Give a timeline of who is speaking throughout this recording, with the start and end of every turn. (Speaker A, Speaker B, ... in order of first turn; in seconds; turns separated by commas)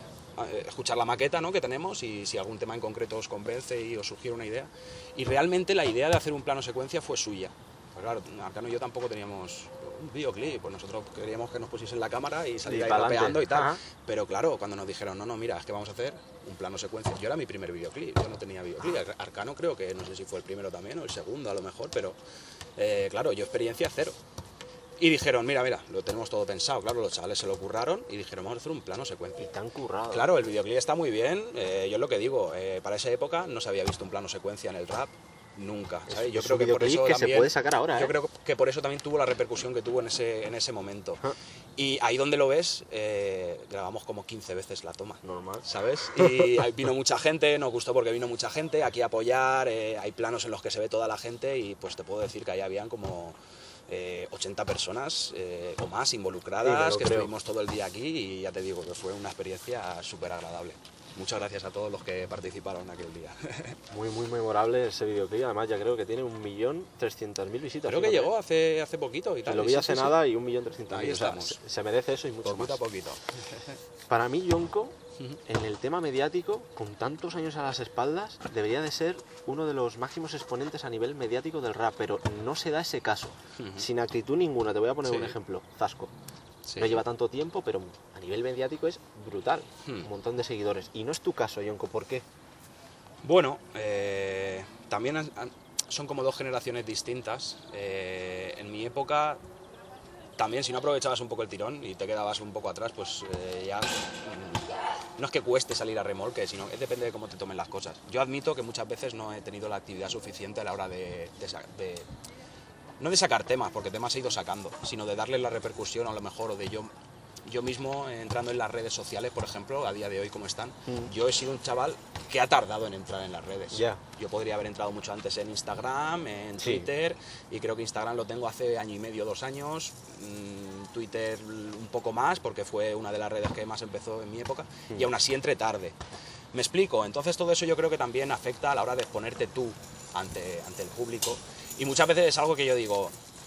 Speaker A: 0.4-22.2, Speaker B: 12.7-13.8, Speaker A: 22.8-24.1, Speaker A: 25.0-29.4, Speaker B: 29.4-30.3, Speaker A: 30.1-41.2, Speaker B: 36.1-38.1, Speaker A: 41.8-53.4, Speaker B: 45.2-46.7, Speaker A: 53.9-63.8, Speaker B: 56.6-57.3, Speaker B: 63.9-68.3, Speaker A: 67.8-70.2, Speaker B: 69.5-72.8, Speaker A: 70.9-71.6, Speaker A: 72.4-73.7, Speaker B: 74.1-74.9, Speaker B: 75.5-86.1, Speaker A: 83.6-83.9, Speaker A: 85.0-85.3, Speaker A: 86.7-87.0, Speaker B: 86.8-92.2, Speaker A: 93.2-99.4, Speaker A: 100.4-112.1, Speaker A: 113.0-116.9, Speaker A: 117.5-135.9, Speaker B: 123.7-124.0, Speaker B: 126.6-126.9, Speaker A: 136.5-143.1